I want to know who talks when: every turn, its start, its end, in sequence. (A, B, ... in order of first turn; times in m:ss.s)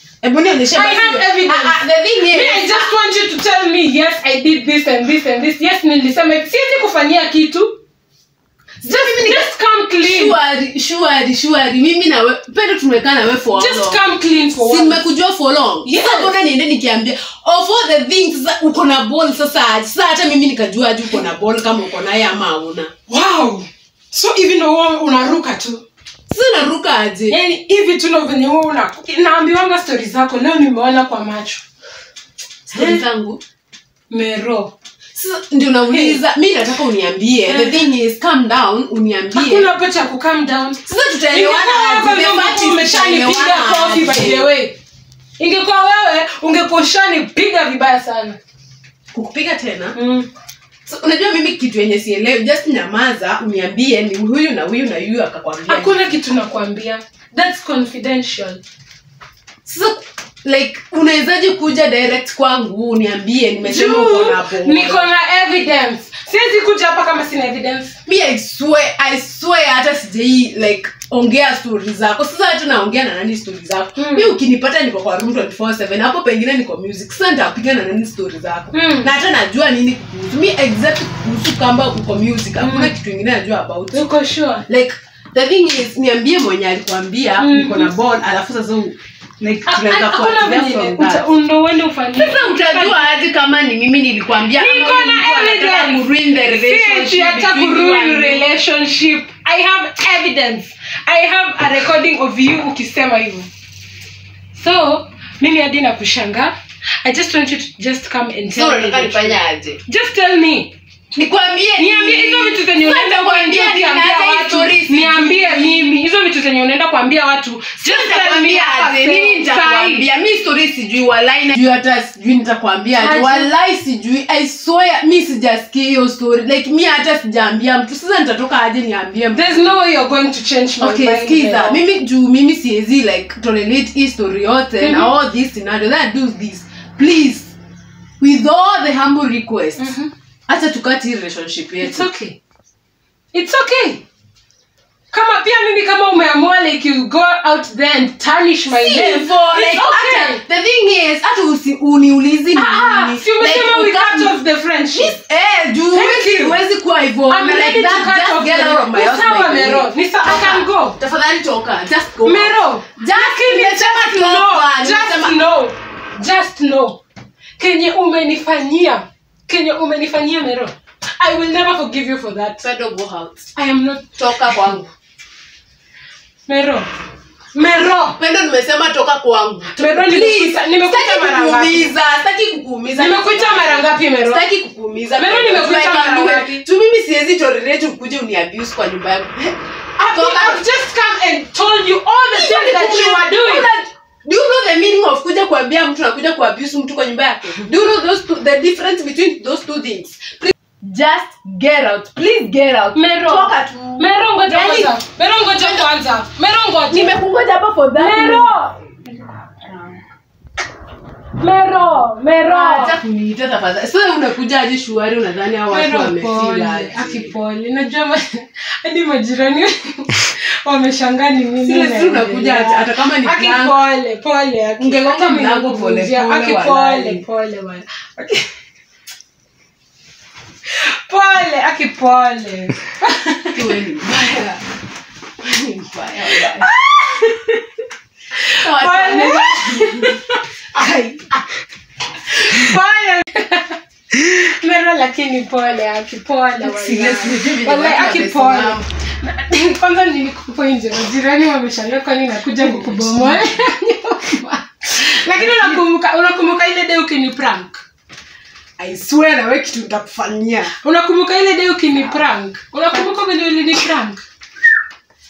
0:00.2-0:02.9 A
0:00.7-0:07.8 B
0:08.8-0:10.4 B
0:08.8-0:22.9 A
0:13.5-0:15.0 B
0:15.8-0:16.3 B
0:23.1-0:25.8 B
0:26.3-0:27.4 A
0:27.3-0:31.6 B
0:32.7-0:33.4 A
0:32.7-0:33.0 B
0:34.1-0:34.7 B
0:35.2-0:39.7 A
0:35.9-0:36.2 B
0:37.5-0:37.8 B
0:39.4-0:44.8 B
0:40.9-0:44.5 A
0:45.4-0:48.4 B
0:49.1-0:50.0 A
0:50.0-0:50.3 B
0:50.9-0:55.9 A
0:55.7-0:58.6 B
0:59.7-1:05.1 A
1:03.6-1:08.0 B
1:08.1-1:24.1 A
1:14.0-1:14.3 B
1:18.7-1:19.1 B
1:22.6-1:22.9 B
1:23.9-1:24.6 B
1:24.7-1:31.3 A
1:27.4-1:27.9 B
1:29.7-1:33.1 B
1:32.2-1:38.5 A
1:34.5-1:43.5 B
1:44.6-1:50.7 B
1:48.5-1:49.8 A
1:51.1-1:55.9 A
1:51.8-2:00.0 B
1:57.8-2:09.7 A
2:03.0-2:03.5 B
2:09.3-2:11.8 B
2:10.8-2:17.5 A
2:14.8-2:15.1 B
2:18.2-2:19.9 A
2:19.8-2:20.1 B
2:20.5-2:22.1 A
2:21.8-2:22.4 B
2:23.3-2:24.0 B
2:25.1-2:30.4 B
2:28.7-2:34.4 A
2:32.5-2:35.2 B
2:34.9-2:45.4 A
2:35.9-2:36.6 B
2:37.3-2:41.0 B
2:42.2-2:47.0 B
2:47.6-2:52.6 B
2:52.6-2:53.5 A
2:53.6-2:54.5 B
2:54.2-2:54.9 A
2:56.5-2:56.9 B
2:57.6-2:58.2 B
2:58.1-3:10.7 A
2:59.8-3:01.9 B
3:03.0-3:04.4 B
3:05.2-3:06.6 B
3:10.0-3:13.7 B
3:12.3-3:25.0 A
3:22.9-3:27.2 B
3:25.6-3:25.9 A
3:26.9-3:28.5 A
3:28.0-3:28.8 B
3:29.7-3:29.9 A
3:31.4-3:33.0 B
3:32.4-3:37.3 A
3:35.7-3:48.5 B
3:41.6-3:43.8 A
3:44.8-3:47.2 A
3:50.7-3:53.7 B
3:53.5-3:54.6 A
3:55.4-3:56.7 A
3:56.3-3:57.6 B
3:58.4-4:01.3 B
3:58.6-4:01.0 A
4:02.3-4:17.8 B
4:06.6-4:08.9 A
4:12.6-4:13.5 A
4:15.3-4:15.8 A
4:18.8-4:20.7 A
4:20.8-4:24.2 B